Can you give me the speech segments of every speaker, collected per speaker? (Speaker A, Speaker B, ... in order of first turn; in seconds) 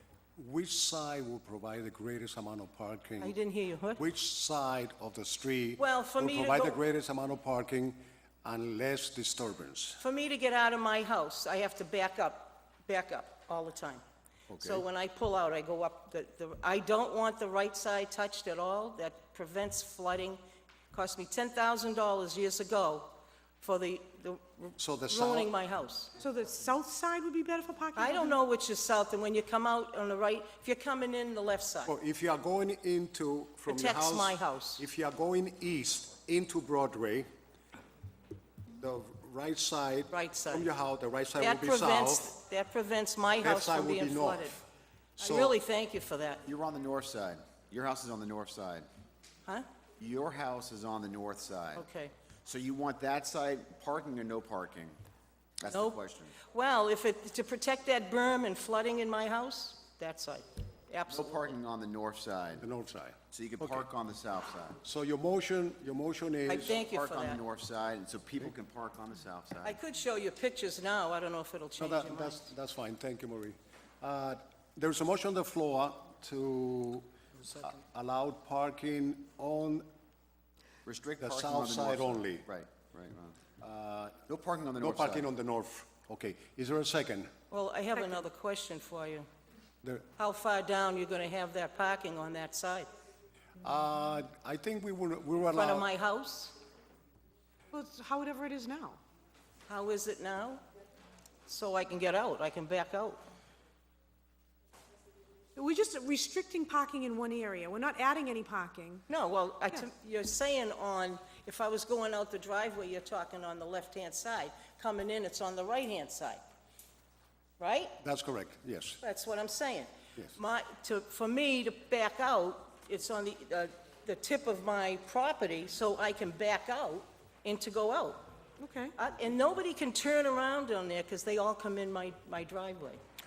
Speaker A: 0.4-3.4, 4.0-10.0, 24.8-25.5, 31.9-37.3, 38.8-42.3, 43.4-44.6, 45.2-45.6, 62.6-63.9, 64.8-66.8, 71.8-79.8, 81.2-82.5, 83.6-84.2, 84.8-87.3, 93.6-95.9, 118.0-119.0
Speaker B: 3.2-4.0, 5.8-6.8, 10.0-14.0, 14.6-20.4, 20.9-26.1, 28.0-31.9, 33.7-34.8, 40.1-40.7, 41.4-44.6, 45.2-46.4, 51.8-52.1, 55.7-61.5, 66.5-67.4, 69.6-72.5, 87.5-89.3, 90.2-92.9, 95.5-96.6, 99.7-100.6, 101.5-103.2, 109.1-116.4, 117.6-118.0, 119.0-128.2, 129.0-133.0
Speaker C: 14.5-14.8, 46.5-48.9, 50.0-51.9, 52.5-55.0, 55.6-56.4, 61.1-62.7, 63.3-64.8, 66.7-69.8, 80.8-83.4, 84.3-85.3
Speaker D: 26.2-28.4, 97.7-99.0, 105.6-109.1, 128.6-128.9